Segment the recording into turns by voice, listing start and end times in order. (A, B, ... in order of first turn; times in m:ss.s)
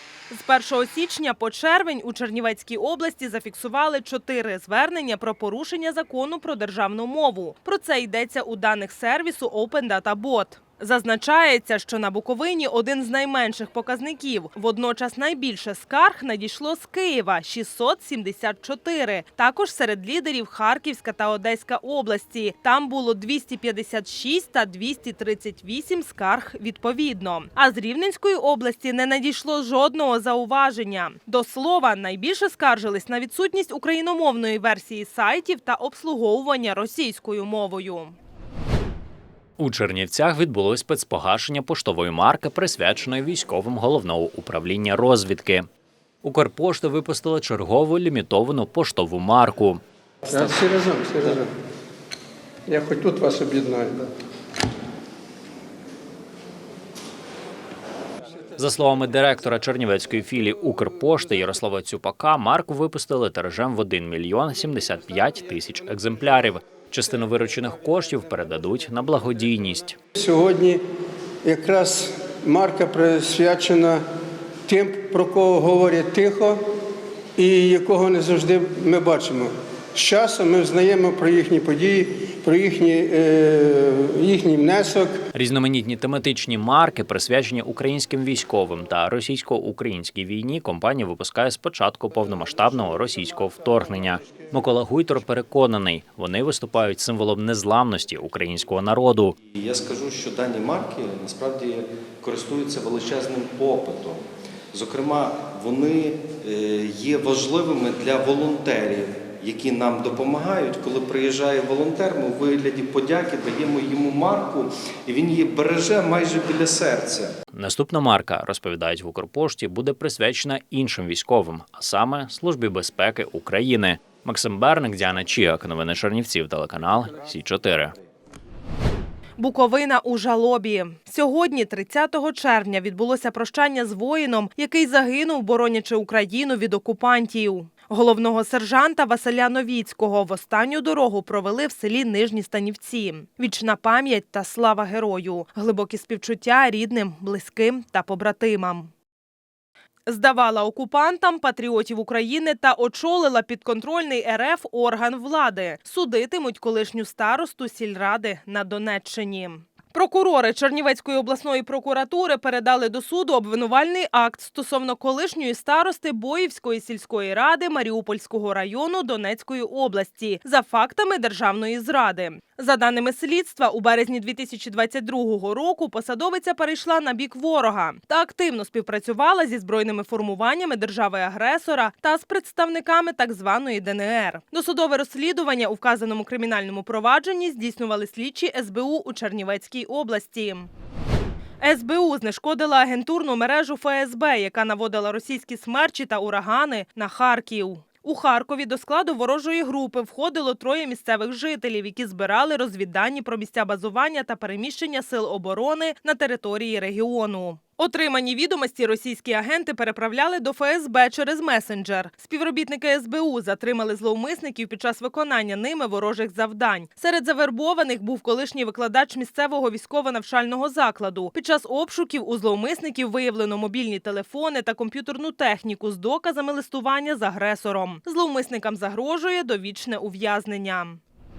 0:00.3-0:38.2 A
0:39.6-0:45.6 B
0:46.2-0:49.8 B
0:50.2-0:51.5 C
0:52.7-0:54.1 C
0:58.6-1:10.0 B
1:10.1-1:10.8 C
1:11.4-1:14.0 C
1:14.7-1:16.6 C
1:17.4-1:25.2 C
1:25.3-1:39.3 B
1:39.5-1:57.3 D
1:57.5-2:07.9 B
2:09.4-2:28.9 A
2:30.0-3:10.7 A
3:11.6-3:51.0 A